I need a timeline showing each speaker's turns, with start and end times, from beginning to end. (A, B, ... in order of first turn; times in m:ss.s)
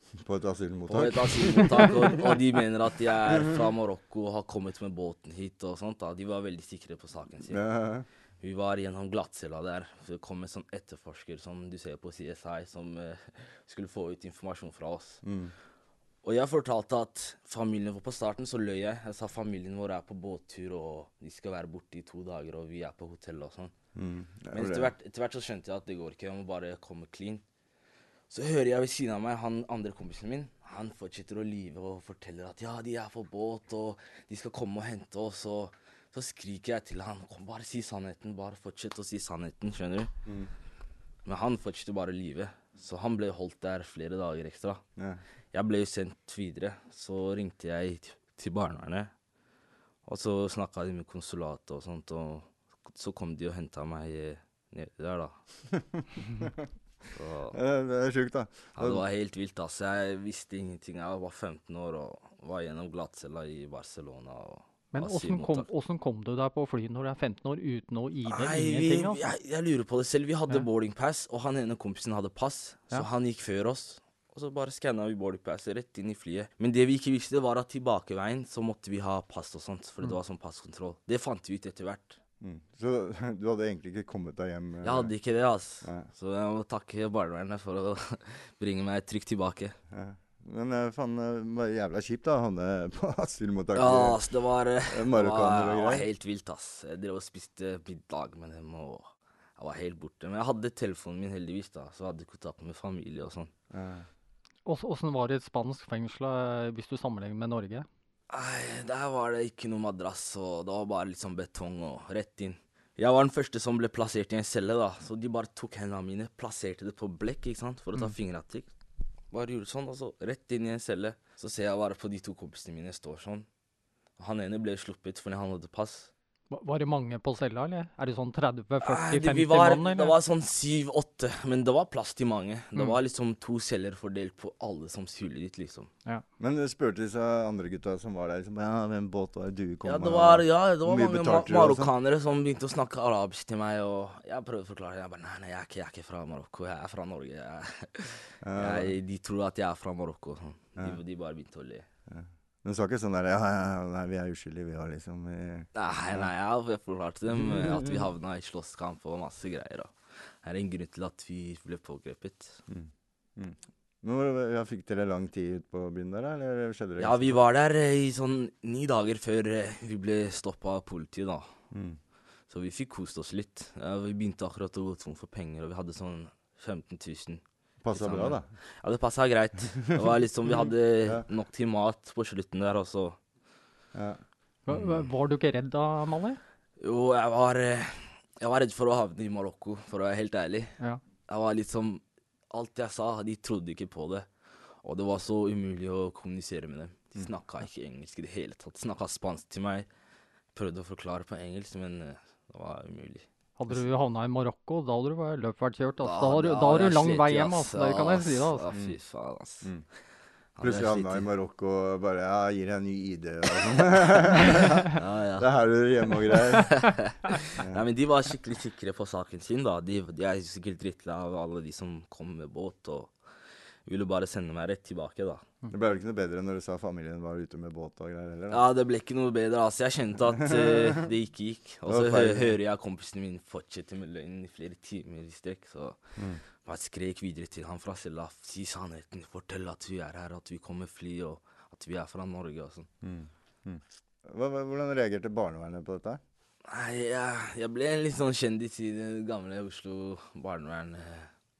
0:00.2-0:02.2 A
0:00.9-0:07.6 B
0:07.5-0:08.1 A
0:08.4-0:15.2 B
0:15.2-0:15.5 A
0:16.2-0:23.7 B
0:23.9-0:24.9 A
0:24.5-0:27.4 B
0:28.3-0:40.1 B
0:41.2-0:44.8 B
0:45.5-0:49.1 B
0:50.0-0:55.4 B
0:55.9-0:56.5 A
0:57.1-0:57.6 B
0:57.5-0:59.0 A
0:58.7-1:05.7 B
1:04.9-1:09.2 C
1:08.3-1:22.2 B
1:22.4-1:25.1 A
1:24.8-1:29.8 B
1:25.8-1:26.1 A
1:29.9-1:34.2 A
1:33.7-1:43.5 B
1:34.9-1:36.0 A
1:43.7-1:44.0 A
1:44.6-1:47.9 C
1:48.3-1:58.7 B
1:59.3-2:03.4 B
2:04.2-2:06.1 B
2:06.5-2:10.1 C
2:08.8-2:15.9 B
2:16.4-2:21.9 A
2:19.8-2:31.8 B
2:28.4-2:28.9 A
2:32.1-2:36.2 A
2:35.7-2:42.6 B
2:42.7-2:47.4 A
2:47.0-2:51.5 B
2:51.7-2:52.0 A
2:52.5-3:03.2 B
2:57.8-2:58.5 A
3:03.9-3:04.2 A
3:04.6-3:06.4 C
3:06.8-3:10.8 B
3:11.3-3:14.3 B
3:14.8-3:19.9 B
3:20.5-3:23.3 B
3:23.6-3:28.6 C
3:26.0-3:29.7 B
3:30.6-3:31.3 B
3:30.6-3:36.7 A
3:34.3-3:35.5 B
3:36.3-3:43.1 B
3:43.8-3:45.4 B
3:45.7-3:48.6 A
3:48.5-3:56.0 B
3:51.8-3:52.6 A
3:56.6-4:02.9 B
4:03.0-4:06.2 A
4:06.7-4:11.3 B